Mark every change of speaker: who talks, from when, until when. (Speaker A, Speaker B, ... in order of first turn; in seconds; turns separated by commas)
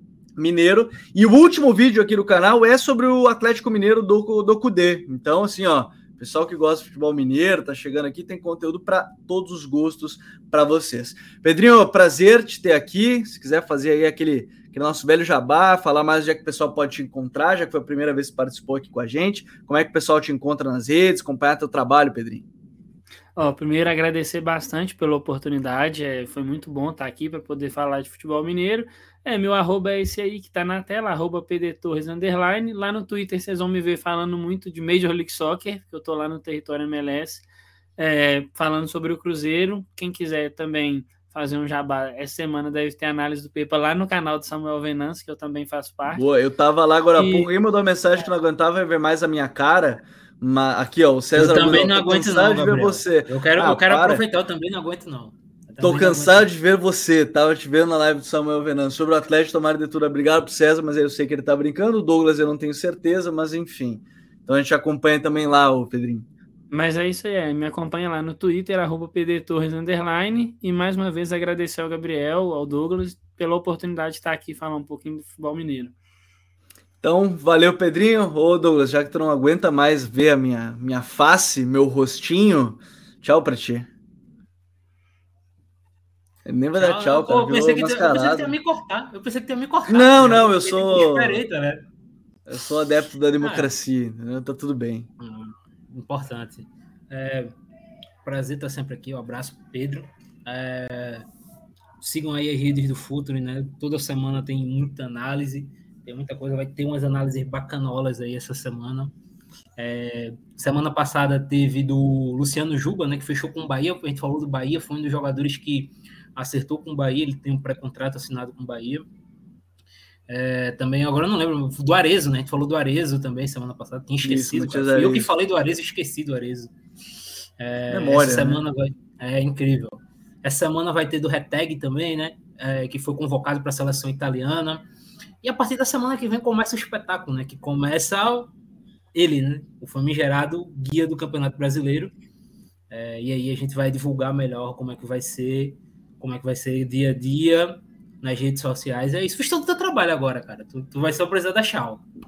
Speaker A: 0.4-22.4, Speaker B: 23.4-37.4, Speaker B: 38.0-46.2, Speaker A: 46.0-54.2, Speaker B: 47.1-47.5, Speaker C: 51.3-56.5, Speaker A: 55.8-66.3, Speaker B: 66.7-75.9, Speaker A: 77.0-83.9, Speaker A: 86.4-88.5, Speaker C: 86.8-91.9, Speaker A: 89.9-91.4, Speaker A: 92.5-95.1, Speaker C: 93.4-93.7, Speaker C: 95.2-97.5, Speaker C: 98.2-101.2, Speaker C: 102.0-109.1, Speaker C: 109.8-119.0, Speaker C: 120.3-126.7, Speaker A: 124.2-125.3, Speaker C: 127.6-134.9, Speaker A: 127.9-128.6, Speaker C: 135.4-138.5, Speaker C: 139.1-142.1, Speaker C: 142.9-152.1